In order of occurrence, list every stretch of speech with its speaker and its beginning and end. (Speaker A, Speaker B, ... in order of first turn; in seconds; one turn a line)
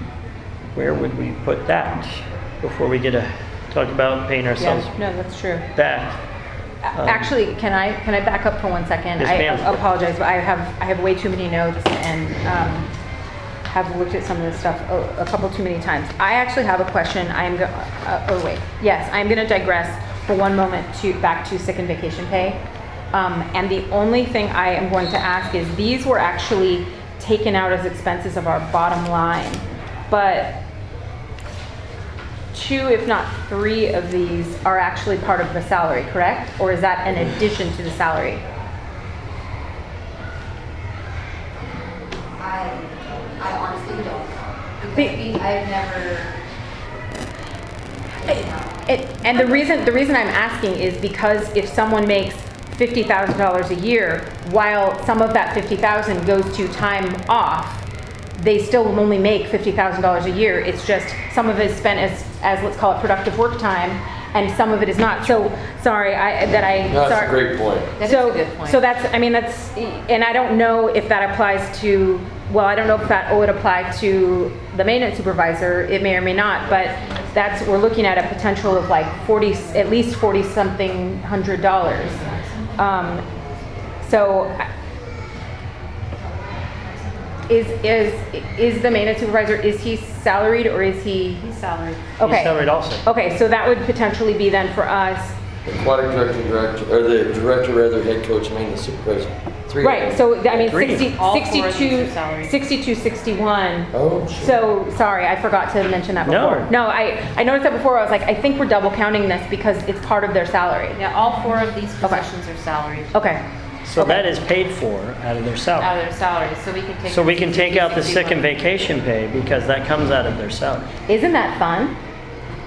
Speaker A: 0.7-4.9
Speaker B: 4.6-5.7
Speaker A: 5.7-6.2
Speaker B: 6.9-12.9
Speaker A: 6.9-7.3
Speaker A: 9.2-9.8
Speaker B: 13.7-22.6
Speaker B: 23.1-30.6
Speaker B: 32.5-38.4
Speaker C: 42.4-46.3
Speaker B: 44.9-45.3
Speaker B: 48.3-57.8
Speaker B: 58.4-67.4
Speaker D: 66.9-67.9
Speaker E: 68.0-68.8
Speaker B: 68.0-83.2
Speaker B: 84.0-84.7
Speaker B: 87.5-91.4
Speaker E: 91.4-92.1
Speaker B: 92.2-95.4
Speaker A: 92.2-93.0
Speaker D: 95.6-100.6
Speaker B: 99.8-111.0
Speaker A: 100.5-101.1
Speaker E: 101.1-102.5
Speaker D: 103.9-104.6
Speaker A: 106.2-106.7
Speaker E: 110.9-113.3
Speaker B: 112.0-112.3
Speaker B: 113.1-113.4
Speaker A: 113.8-115.9
Speaker B: 114.0-114.3
Speaker E: 115.8-118.5
Speaker A: 117.0-120.9
Speaker B: 121.1-122.0